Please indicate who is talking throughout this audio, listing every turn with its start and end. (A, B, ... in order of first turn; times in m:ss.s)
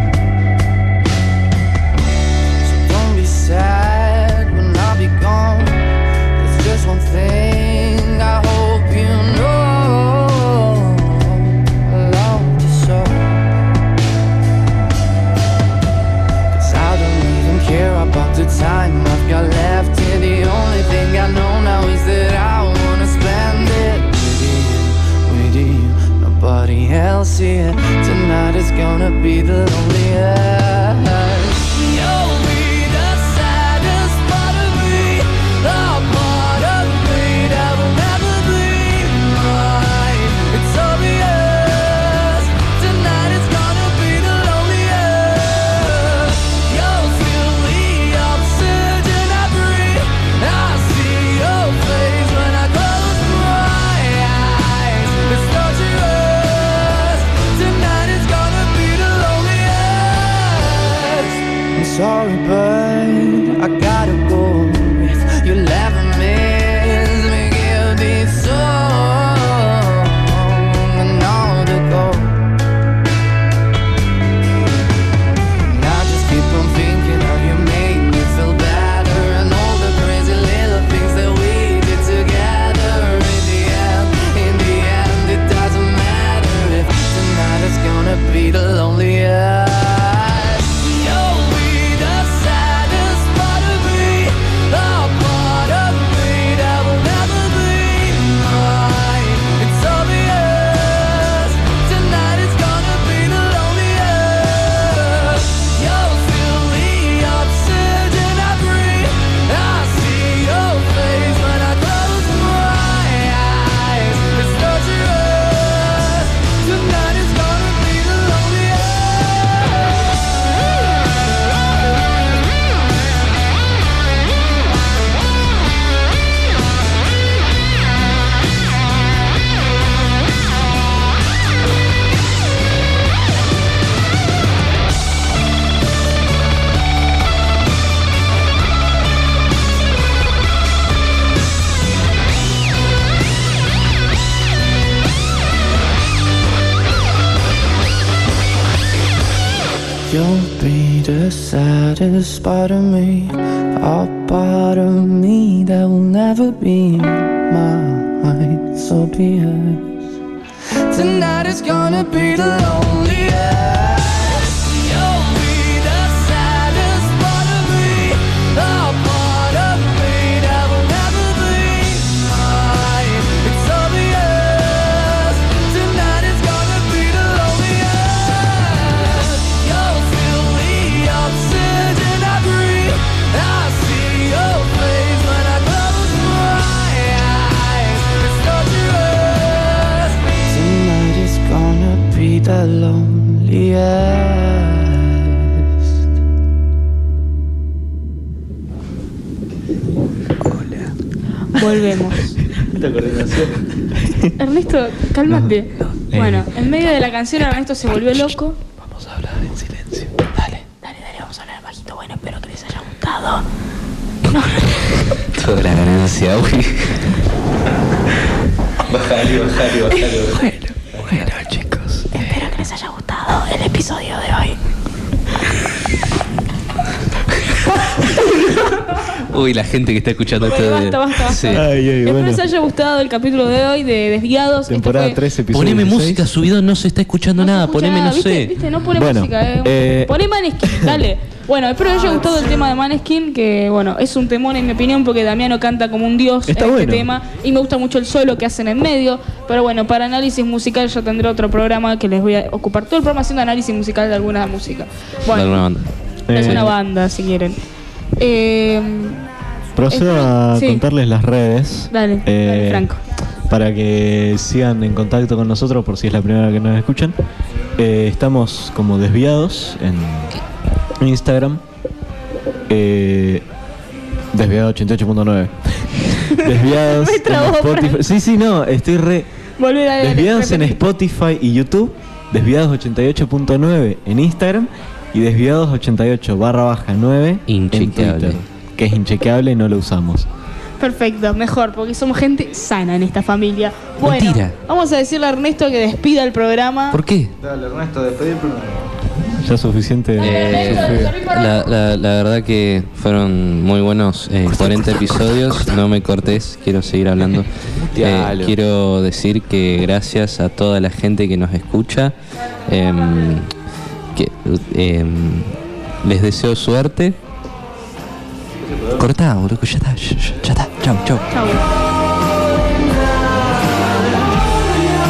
0:02.6-0:13.4 A
0:16.5-1:12.4 A
1:15.6-1:59.9 A
2:30.1-2:40.0 A
2:40.9-3:15.4 A
3:21.5-3:22.4 B
3:22.6-3:23.6 C
3:24.0-3:24.3 D
3:24.4-3:28.6 B
3:25.3-3:25.5 D
3:26.1-3:26.5 D
3:30.8-3:33.4 B
3:34.3-3:35.0 B
3:35.3-3:37.0 E
3:38.9-3:42.0 E
3:42.1-3:44.6 B
3:48.0-3:49.0 B
3:49.1-3:51.7 E
3:50.4-3:55.2 B
3:51.4-3:52.4 D
3:54.7-3:56.3 D
3:55.5-3:58.6 E
3:57.4-4:15.7 B
3:58.9-4:01.0 D
4:06.5-4:07.1 D
4:15.3-4:15.9 E
4:16.3-4:16.7 D
4:16.3-4:17.6 B
4:16.4-4:16.7 E
4:18.2-4:19.2 B
4:19.8-4:22.9 D
4:19.9-4:20.8 B
4:21.9-4:23.0 B
4:23.5-4:27.2 D
4:27.8-4:30.4 D
4:31.0-4:31.6 D
4:32.7-4:33.5 D
4:34.3-4:39.3 D
4:36.2-4:38.0 B
4:39.6-4:40.8 B
4:40.0-4:50.3 D
4:47.5-4:48.4 E
4:50.8-4:57.0 B
4:54.0-4:54.6 E
4:56.9-4:57.3 E
4:57.4-4:58.9 C
4:59.4-5:01.1 D
5:00.2-5:01.7 B
5:00.2-5:13.5 E
5:04.5-5:05.2 D
5:07.8-5:08.6 C
5:14.1-5:17.2 E
5:19.0-5:21.3 E
5:21.3-5:21.6 B
5:22.7-5:24.3 A